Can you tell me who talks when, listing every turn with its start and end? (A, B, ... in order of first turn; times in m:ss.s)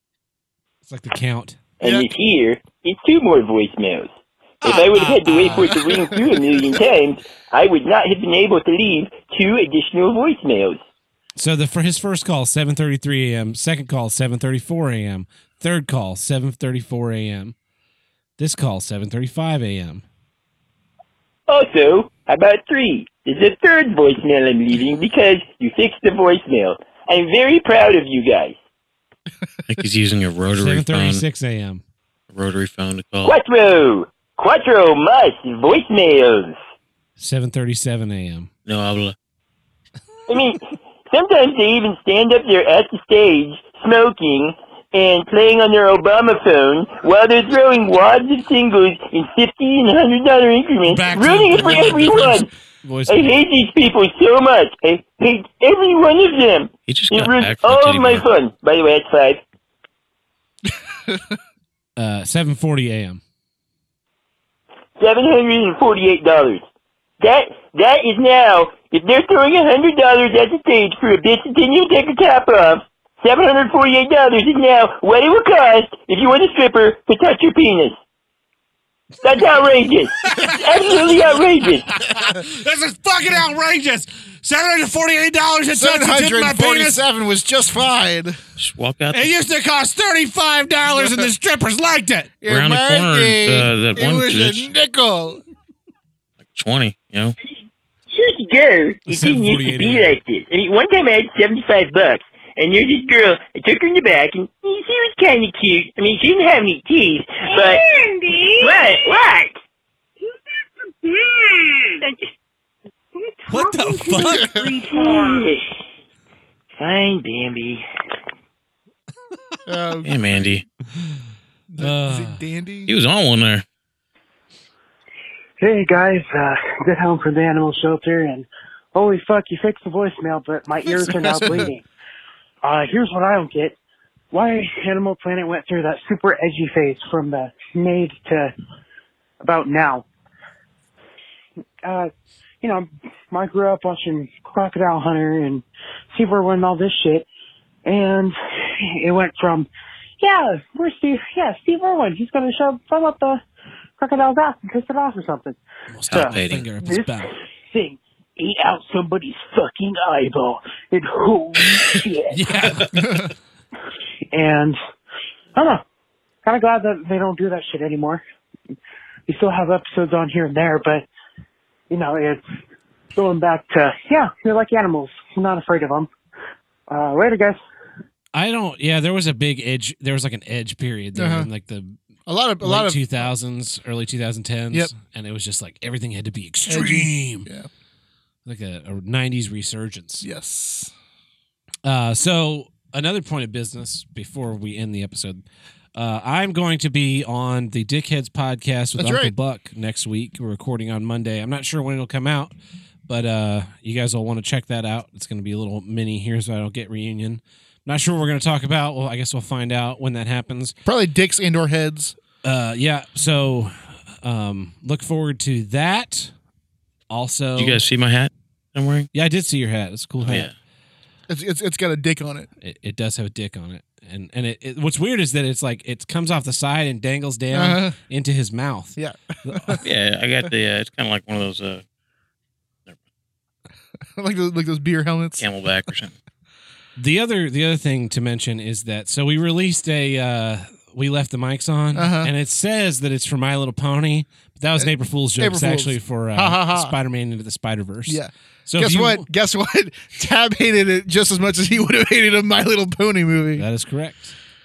0:00.8-0:01.6 A
0:01.8-0:04.1 B
0:04.6-0:06.1 A
0:04.6-0:10.8 B
0:11.4-0:17.6 A
0:18.4-0:20.0 A
0:21.5-0:28.6 B
0:29.7-0:31.2 C
0:30.6-0:31.8 A
0:32.3-0:33.4 C
0:33.2-0:36.6 B
0:37.2-0:38.5 A
0:38.7-0:39.1 C
0:40.3-0:52.5 B
0:50.9-0:53.4 A
0:53.1-0:59.4 B
0:56.9-0:58.3 C
1:00.6-1:01.4 D
1:02.0-1:03.2 A
1:05.0-1:06.6 B
1:07.2-1:18.0 B
1:19.2-1:21.9 B
1:20.2-1:21.4 A
1:21.9-1:27.0 A
1:25.7-1:28.4 D
1:28.6-1:29.3 C
1:29.1-1:32.3 A
1:30.9-1:31.2 D
1:32.4-1:35.4 D
1:32.5-1:34.7 C
1:36.5-1:37.4 C
1:38.1-1:47.9 B
1:39.1-1:40.1 A
1:47.9-1:48.5 E
1:48.5-1:49.6 B
1:53.4-1:54.6 E
1:53.5-1:54.7 A
1:54.2-1:54.7 D
1:54.8-1:55.6 B
1:56.8-1:57.8 B
1:59.7-2:00.6 D
2:00.0-2:00.6 C
2:01.7-2:02.9 D
2:01.8-2:02.4 A
2:02.9-2:03.6 C
2:05.6-2:11.8 E
2:10.9-2:11.7 D
2:12.6-2:13.8 E
2:14.3-2:18.5 E
2:19.4-2:20.0 E
2:21.8-2:22.1 E
2:22.6-2:27.3 E
2:27.8-2:29.7 E
2:30.2-2:33.4 E
2:34.0-2:35.6 E
2:35.9-2:37.3 A
2:36.1-2:36.7 C
2:36.1-2:42.7 E
2:42.3-2:43.3 A
2:42.9-2:43.3 D
2:44.3-2:44.8 E
2:45.6-2:45.8 E
2:46.4-2:48.2 E
2:49.3-2:51.1 E
2:51.9-2:52.4 E
2:53.2-2:56.1 E
2:56.9-2:57.6 E
2:58.3-3:02.0 A
3:01.2-3:01.5 D
3:02.3-3:03.3 D
3:02.6-3:07.5 A
3:06.7-3:07.7 D
3:08.5-3:10.3 A
3:10.2-3:10.9 D
3:11.8-3:15.4 A
3:16.0-3:22.5 A
3:19.0-3:19.3 D
3:23.1-3:30.8 A
3:30.9-3:32.2 D
3:32.4-3:36.3 A
3:37.1-3:37.8 A
3:37.6-3:39.1 C
3:39.1-3:40.5 A
3:40.2-3:40.5 C
3:41.3-3:42.5 D
3:42.6-3:49.8 A
3:47.5-3:48.0 D
3:49.0-3:49.8 D
3:49.8-3:51.8 C
3:54.2-3:55.5 D
3:55.4-3:56.2 C
3:57.0-4:09.3 A
4:01.9-4:02.3 D
4:04.8-4:06.9 D
4:08.1-4:13.7 D
4:13.6-4:14.4 A